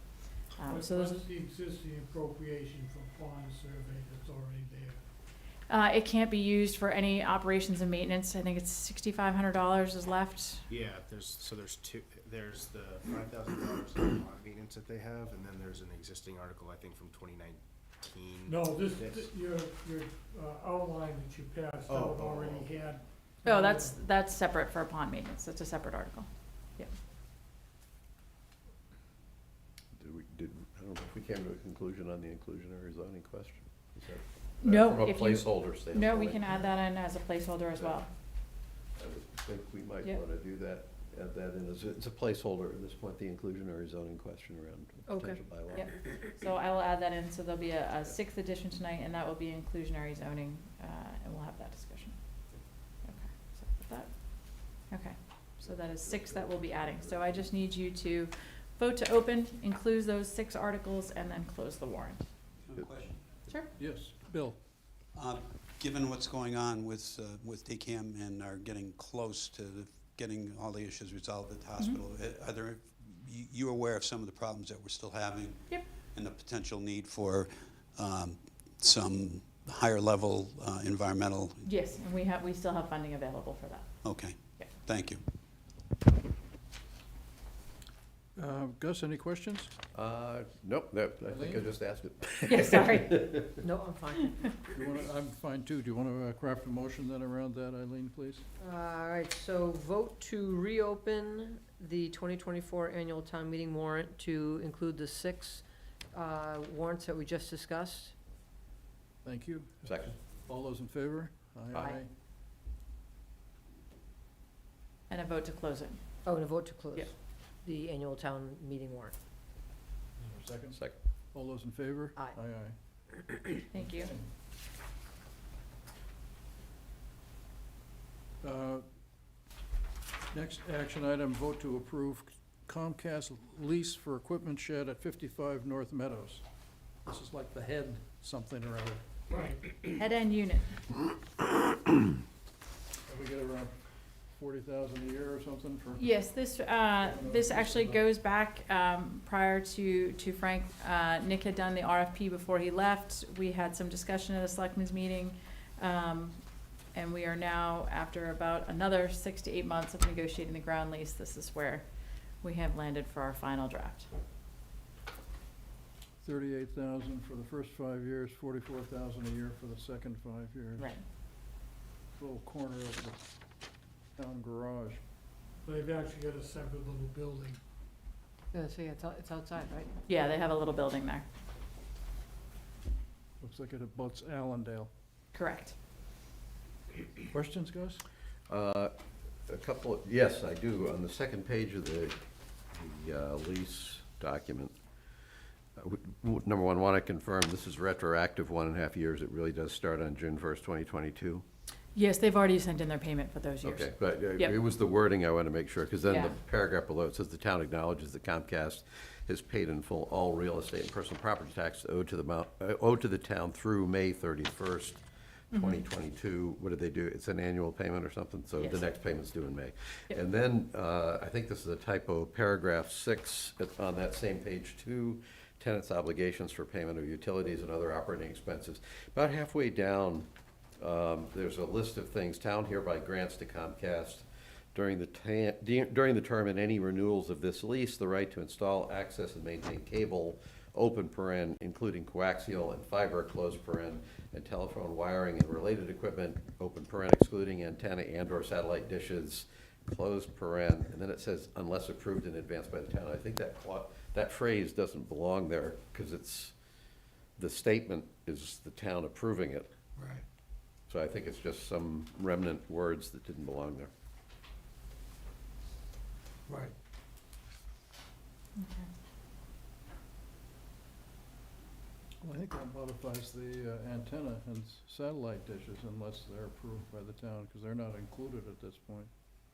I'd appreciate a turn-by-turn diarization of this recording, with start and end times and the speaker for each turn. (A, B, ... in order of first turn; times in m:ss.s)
0:00.6-0:01.2 A
0:00.6-0:05.0 B
0:05.7-0:10.6 A
0:10.7-0:19.3 C
0:18.5-0:24.0 B
0:21.9-0:22.8 C
0:23.4-0:26.9 A
0:30.0-0:36.6 D
0:34.6-0:38.1 A
0:39.0-0:45.9 D
0:45.1-0:45.4 E
0:45.7-0:52.2 A
0:53.0-1:02.2 A
0:55.6-0:57.5 D
1:02.6-1:03.6 F
1:03.8-1:04.6 G
1:05.1-1:21.6 F
1:21.6-1:23.9 A
1:24.0-1:25.2 F
1:28.4-1:29.7 G
1:29.9-1:33.6 D
1:31.3-1:31.6 G
1:32.5-1:33.4 A
1:33.6-1:34.5 E
1:34.7-1:38.4 G
1:38.6-1:48.1 E
1:49.2-1:52.1 G
1:49.8-1:50.1 D
1:55.1-1:56.0 A
1:56.2-1:59.1 E
2:00.2-2:00.8 G
2:00.7-2:01.0 D
2:01.3-2:04.3 G
2:03.7-2:04.1 A
2:08.4-2:08.8 G
2:10.3-2:16.4 G
2:17.0-2:19.0 G
2:19.3-2:19.6 B
2:19.8-2:20.7 A
2:23.1-2:23.7 G
2:24.2-2:26.1 G
2:26.0-2:36.4 A
2:27.0-2:28.0 G
2:36.9-2:41.8 A
2:42.4-2:44.1 A
2:46.2-2:51.0 G
2:52.1-2:53.2 G
2:54.2-2:55.0 G
2:55.6-2:57.6 B
2:58.5-3:00.0 E
3:00.1-3:01.2 A
3:03.4-3:04.9 G
3:05.3-3:05.8 A
3:07.3-3:08.0 G
3:08.5-3:08.9 D
3:09.5-3:12.2 D
3:12.7-3:14.8 D
3:15.8-3:21.4 D
3:21.9-3:24.5 A
3:23.6-3:35.0 D
3:26.0-3:26.4 A
3:35.5-3:50.3 D
3:35.5-3:35.8 A
3:38.6-3:38.8 A
3:50.8-4:16.5 D
4:17.4-4:19.7 D
4:20.9-4:23.9 D
4:28.6-4:28.9 A
4:32.2-4:39.1 G